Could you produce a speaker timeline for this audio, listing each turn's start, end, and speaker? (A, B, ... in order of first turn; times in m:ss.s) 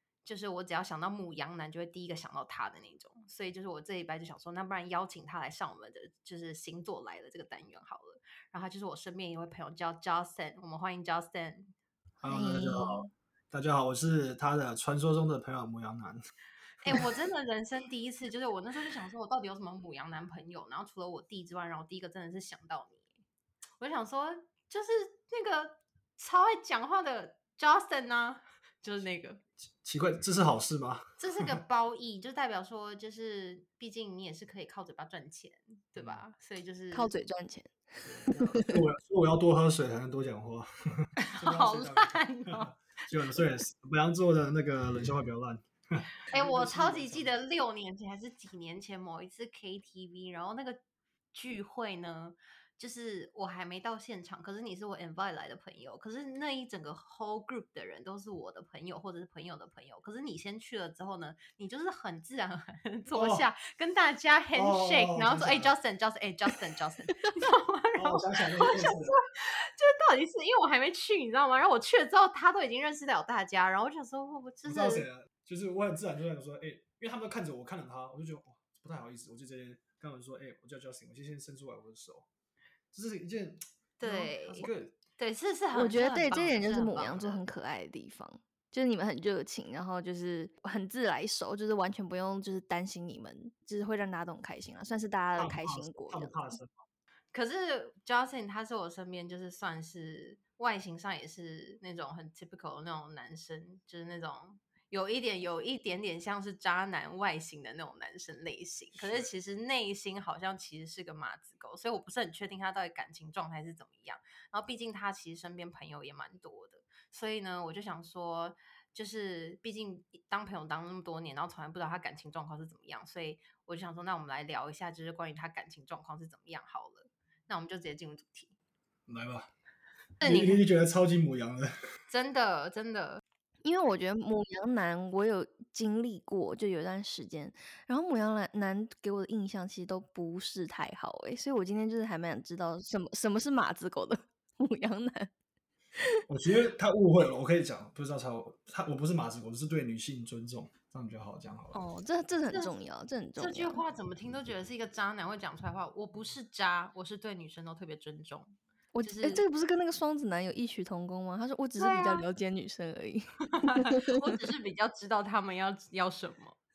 0:00.2-0:11.7 A
0:12.2-0:16.2 B
0:12.2-0:13.1 C
0:16.8-0:23.0 A
0:23.8-0:29.4 A
0:29.8-0:31.6 B
0:31.2-0:37.2 A
0:36.0-0:36.2 B
0:36.9-0:37.7 C
0:38.0-0:47.3 B
0:38.3-0:38.8 C
0:41.2-0:42.7 A
0:46.3-0:50.8 A
0:51.3-1:15.0 A
1:03.1-1:03.5 B
1:04.5-1:05.7 B
1:07.9-1:09.2 B
1:14.6-1:22.3 B
1:22.9-1:25.0 B
1:24.0-1:27.4 A
1:25.7-1:36.5 C
1:35.4-1:36.7 B
1:37.3-2:08.5 A
1:48.9-1:49.3 B
2:09.1-2:09.5 B
2:10.2-2:10.6 A
2:10.2-2:11.7 B
2:12.1-2:13.2 A
2:13.6-2:25.3 C
2:26.0-2:26.2 C
2:26.3-2:31.8 B
2:31.7-2:33.8 C
2:33.4-2:39.4 A
2:38.9-2:44.4 C
2:41.8-2:42.2 A
2:43.4-2:46.6 A